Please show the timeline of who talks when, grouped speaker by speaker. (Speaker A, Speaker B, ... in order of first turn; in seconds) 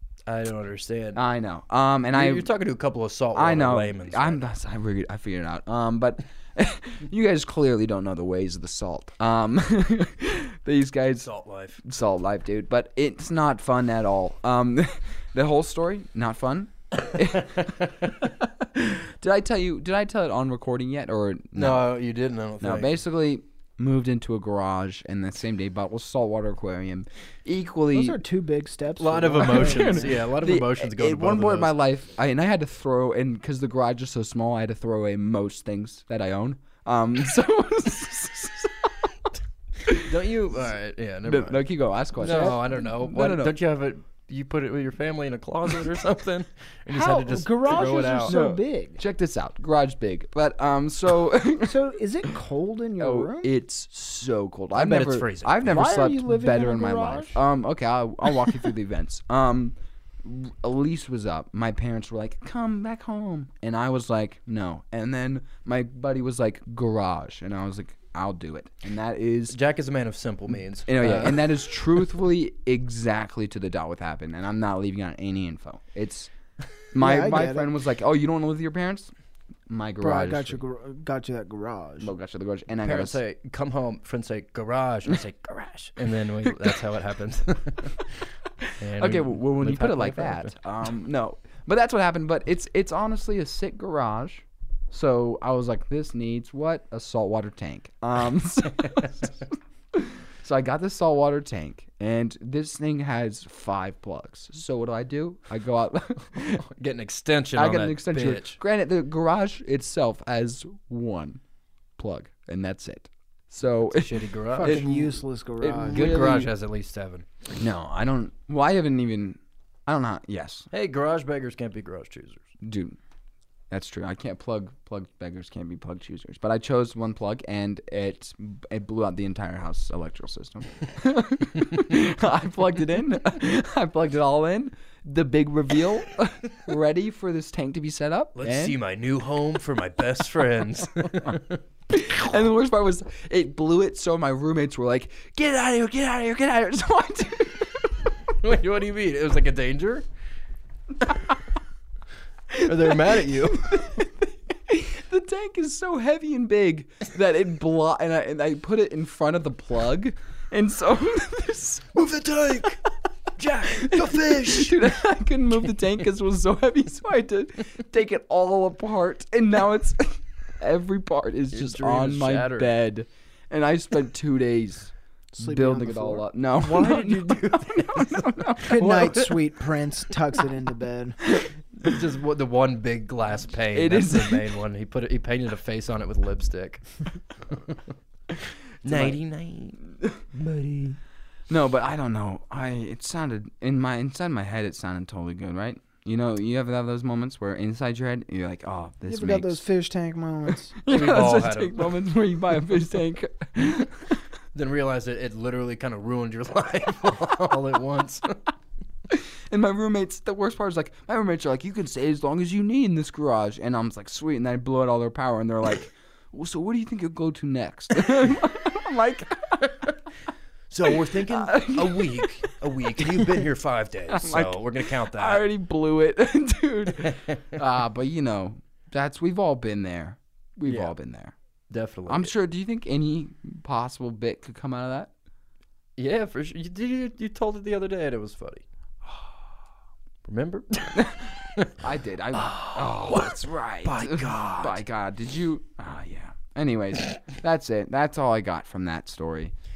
Speaker A: 0.3-1.2, 2.1-4.4, 11.2-11.8, 17.3-17.7, 21.6-23.0, 29.0-31.7, 39.9-48.4, 54.8-55.8, 69.5-71.8, 82.8-88.3, 88.8-90.5, 106.4-108.6, 113.9-115.0, 115.8-117.3, 120.7-122.5, 138.4-141.6, 148.4-150.1, 152.6-154.0, 161.9-162.8, 163.4-164.9, 171.5-172.7, 176.6-179.4, 181.8-187.0, 188.8-191.0, 200.9-202.0, 204.5-208.4, 219.6-219.9, 220.7-225.5, 227.1-227.4, 230.7-230.9, 231.7-232.3, 236.0-238.6, 240.2-241.8, 242.3-244.8
Speaker B: 1.1-2.5, 3.3-11.3, 11.8-21.9, 22.6-28.2, 29.3-39.3, 39.9-40.1, 41.3-43.6, 48.2-51.8, 53.0-69.6, 70.9-76.3, 76.9-79.1, 79.7-80.6, 82.0-83.2, 86.4-86.8, 88.6-99.4, 99.9-106.6, 107.5-111.4, 112.0-116.5, 117.5-120.7, 122.6-123.0, 123.7-138.8, 141.9-148.1, 152.5-162.0, 163.6-179.3, 181.2-182.0, 183.7-184.6, 188.9-189.2, 191.5-199.6, 200.7-204.2, 209.1-219.7, 220.8-223.5, 224.1-231.3, 232.1-235.1, 241.0-249.5
Speaker C: 27.9-30.1, 42.3-42.5, 46.9-49.0, 51.6-53.5, 55.6-57.4, 77.0-77.7, 80.0-82.1, 114.5-116.5, 175.3-176.3, 178.6-181.2, 199.1-200.8